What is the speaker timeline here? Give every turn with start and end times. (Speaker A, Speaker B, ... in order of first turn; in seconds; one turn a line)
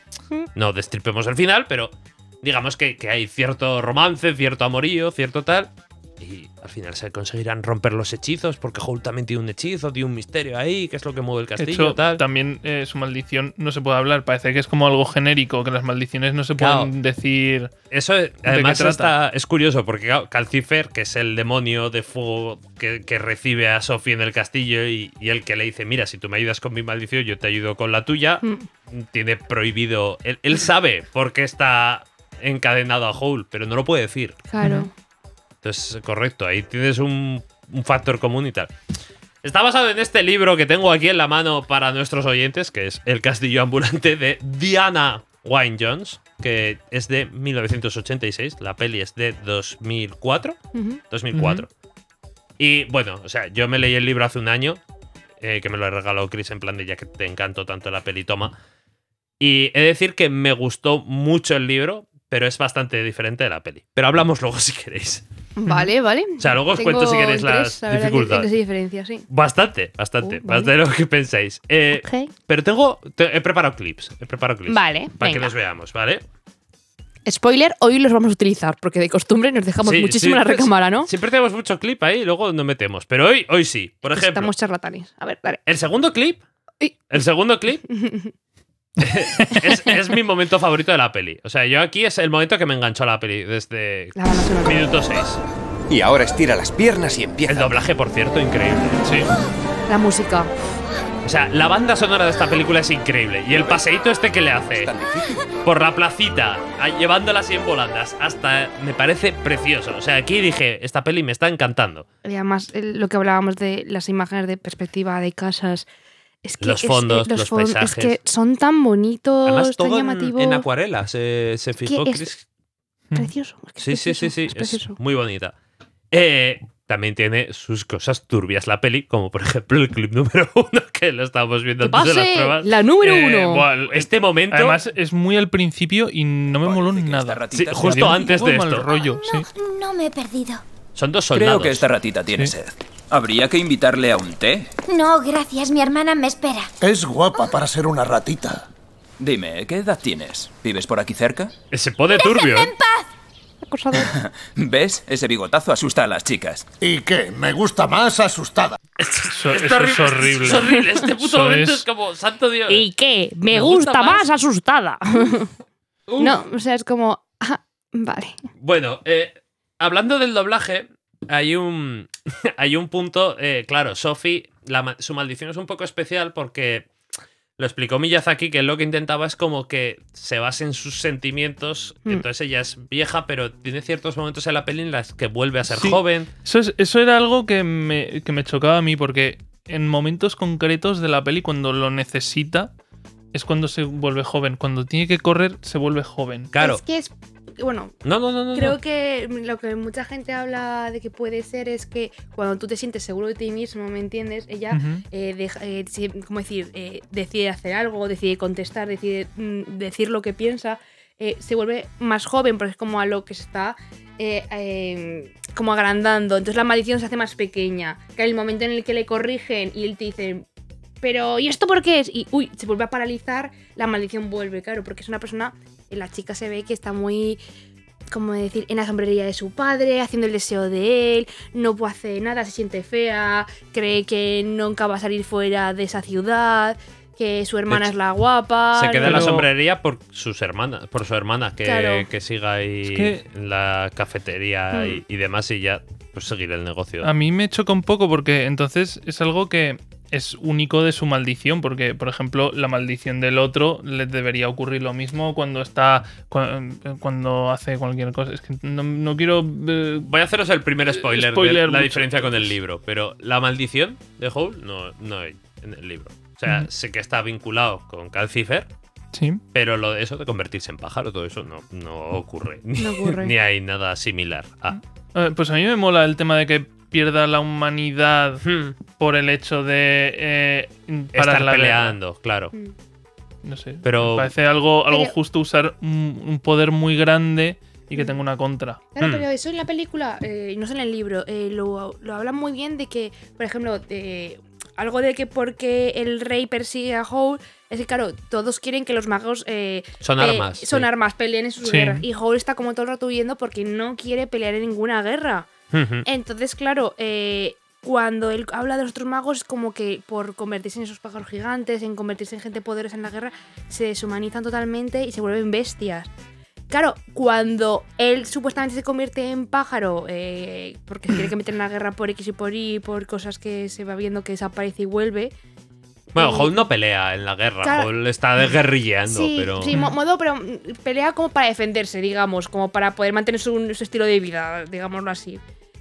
Speaker A: 0.5-12.2
Speaker B: 11.6-17.7
Speaker A: 16.6-16.9
Speaker A: 17.9-34.4
Speaker B: 18.4-19.1
Speaker C: 28.4-28.7
Speaker C: 34.5-34.9
Speaker B: 34.6-34.9
Speaker A: 35.6-38.7
Speaker A: 39.4-50.6
Speaker C: 50.7-51.0
Speaker A: 51.1-51.7
Speaker B: 51.3-51.6
Speaker A: 52.6-54.8
Speaker A: 55.4-58.5
Speaker A: 59.4-65.2
Speaker C: 65.6-69.2
Speaker A: 66.4-68.5
Speaker A: 69.3-76.2
Speaker C: 70.2-70.7
Speaker C: 71.9-72.3
Speaker C: 74.7-75.5
Speaker C: 77.2-81.1
Speaker A: 79.8-84.5
Speaker C: 84.0-85.6
Speaker A: 85.7-86.4
Speaker A: 87.1-87.8
Speaker C: 87.9-88.3
Speaker A: 89.0-95.4
Speaker C: 94.2-94.8
Speaker D: 95.9-97.7
Speaker A: 97.5-99.2
Speaker B: 99.0-99.3
Speaker C: 99.9-100.5
Speaker A: 101.2-104.9
Speaker D: 104.8-105.3
Speaker A: 105.6-112.0
Speaker C: 112.2-115.8
Speaker C: 116.4-120.7
Speaker A: 116.6-118.2
Speaker A: 119.4-122.4
Speaker C: 121.8-122.3
Speaker C: 123.1-125.0
Speaker A: 123.8-125.5
Speaker A: 126.1-132.8
Speaker C: 131.8-133.6
Speaker B: 133.0-139.5
Speaker A: 133.9-134.8
Speaker E: 136.6-138.2
Speaker A: 137.5-138.9
Speaker F: 138.8-140.6
Speaker A: 140.9-141.8
Speaker E: 141.3-144.7
Speaker F: 144.8-146.7
Speaker G: 146.8-148.7
Speaker E: 149.2-151.5
Speaker A: 151.7-152.7
Speaker F: 152.1-153.1
Speaker C: 153.6-154.1
Speaker E: 154.1-156.7
Speaker G: 156.8-158.8
Speaker A: 159.0-162.8
Speaker B: 159.3-161.8
Speaker C: 162.7-165.5
Speaker A: 163.5-164.3
Speaker A: 166.1-166.4
Speaker C: 166.2-168.3
Speaker A: 168.6-176.9
Speaker A: 177.6-186.3
Speaker B: 185.7-192.7
Speaker B: 193.3-196.5
Speaker A: 196.5-196.8
Speaker C: 196.6-197.9
Speaker A: 198.0-198.8
Speaker C: 198.5-220.4
Speaker B: 204.7-205.0
Speaker C: 221.0-227.4
Speaker C: 228.1-239.3
Speaker A: 238.7-247.1
Speaker B: 239.0-239.5
Speaker C: 241.6-242.1
Speaker B: 242.8-243.2
Speaker C: 244.7-245.0
Speaker B: 247.0-260.1
Speaker A: 260.1-268.7
Speaker B: 261.0-262.5
Speaker B: 269.1-269.4
Speaker A: 269.5-274.8
Speaker C: 272.8-273.3
Speaker B: 274.7-278.4
Speaker A: 278.4-278.8
Speaker B: 278.9-282.0
Speaker A: 281.1-282.5
Speaker B: 283.4-288.8
Speaker A: 283.8-284.3
Speaker C: 284.9-285.1
Speaker C: 288.9-305.5
Speaker A: 289.0-289.2
Speaker A: 300.0-300.9
Speaker B: 301.6-302.0
Speaker A: 305.7-306.1
Speaker C: 306.0-316.1
Speaker C: 316.7-325.3
Speaker A: 326.1-329.8
Speaker C: 326.1-326.6
Speaker C: 327.6-327.9
Speaker C: 329.1-335.4
Speaker B: 329.7-329.9